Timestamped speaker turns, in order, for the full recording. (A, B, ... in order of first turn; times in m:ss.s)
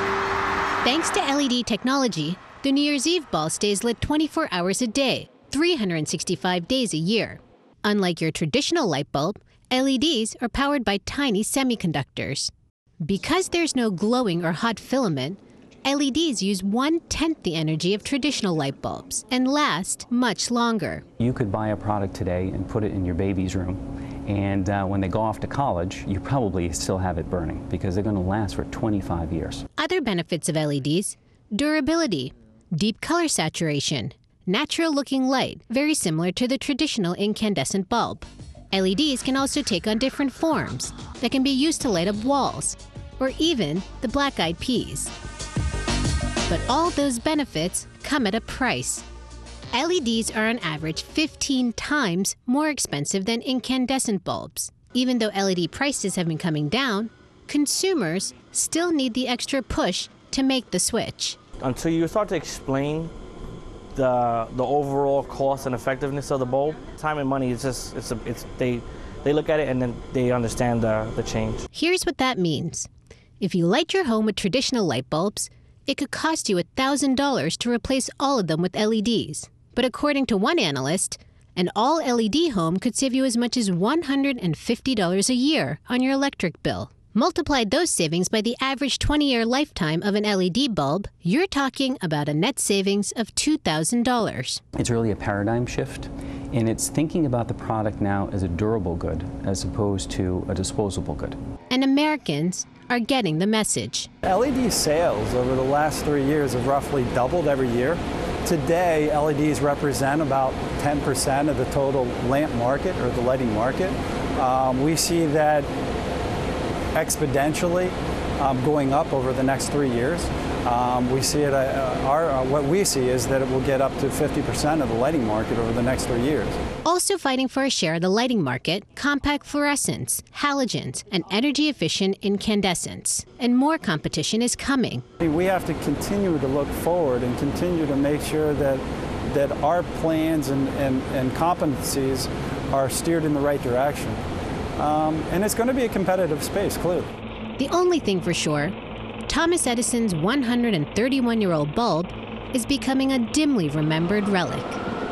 0:00.8-0:12.5 A
0:13.0-0:21.0 A
0:21.2-0:29.6 B
0:29.8-0:45.1 A
0:46.5-0:49.0 A
0:49.7-1:01.4 A
1:01.6-1:03.1 C
1:03.9-1:11.6 C
1:11.7-1:12.9 A
1:13.4-1:34.6 A
1:34.8-1:41.4 B
1:41.7-1:44.1 A
1:44.2-1:55.7 D
1:56.9-2:06.6 D
2:06.8-2:15.0 A
2:15.2-2:24.2 D
2:24.8-2:27.1 D
2:27.6-2:28.7 A
2:29.3-2:34.8 A